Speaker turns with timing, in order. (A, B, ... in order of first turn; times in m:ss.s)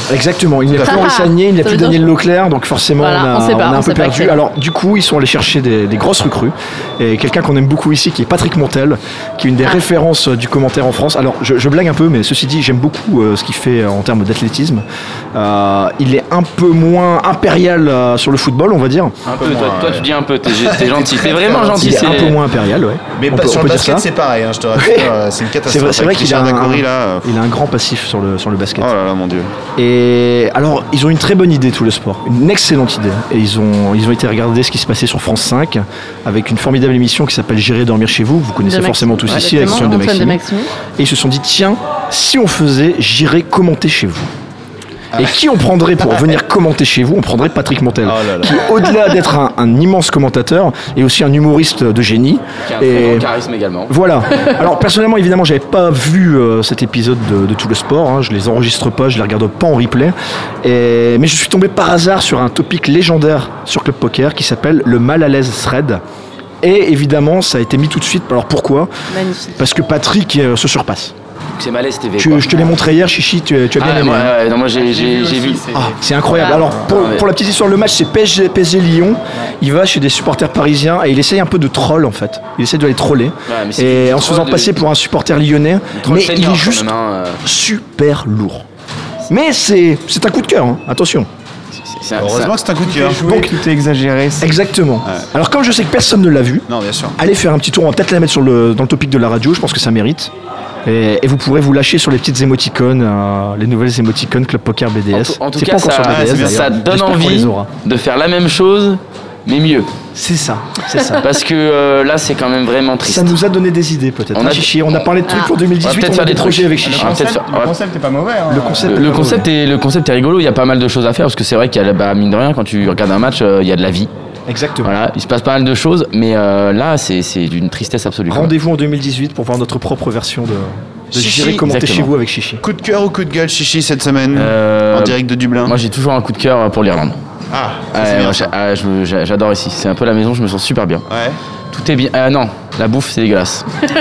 0:00.1-0:19.2 A
0:00.8-0:02.1 B
0:03.0-0:04.4 B
0:19.3-0:22.4 C
0:19.4-0:22.0 D
0:21.6-0:24.1 A
0:23.2-0:27.3 D
0:24.8-0:25.1 A
0:25.7-0:28.9 A
0:28.8-0:29.5 D
0:29.8-0:40.4 A
0:38.6-0:40.7 B
0:41.0-0:44.3 A
0:45.2-0:53.3 A
0:48.0-0:48.8 D
0:52.6-0:53.9 C
0:53.9-1:06.0 A
1:06.6-1:08.9 A
1:09.1-1:09.6 B
1:09.6-1:11.1 A
1:11.6-1:12.8 C
1:12.2-1:14.4 A
1:13.8-1:15.7 C
1:14.7-1:16.9 E
1:15.8-1:26.9 A
1:16.4-1:16.6 B
1:16.9-1:17.3 C
1:23.5-1:24.8 C
1:26.0-1:27.4 C
1:27.4-1:28.6 A
1:29.3-1:31.3 A
1:31.8-1:32.6 C
1:32.2-1:33.3 D
1:32.9-1:34.5 E
1:33.2-1:33.6 A
1:34.4-1:36.7 A
1:36.7-1:37.2 D
1:37.2-1:40.3 A
1:40.8-1:47.7 A
1:45.1-1:49.9 C
1:46.1-1:46.7 D
1:50.2-1:51.3 A
1:51.2-1:53.4 C
1:53.0-1:57.2 A
1:54.3-1:55.1 C
1:55.3-1:55.6 B
1:55.8-1:57.7 C
1:56.8-1:59.0 E
1:58.5-1:59.5 A
1:58.9-2:04.1 C
2:04.5-2:05.0 A
2:04.8-2:08.5 C
2:08.3-2:12.6 A
2:11.1-2:11.6 D
2:11.6-2:12.1 C
2:12.6-2:15.8 D
2:14.3-2:17.2 C
2:17.5-2:18.5 D
2:17.9-2:21.0 C
2:21.1-2:21.4 D
2:21.7-2:23.7 C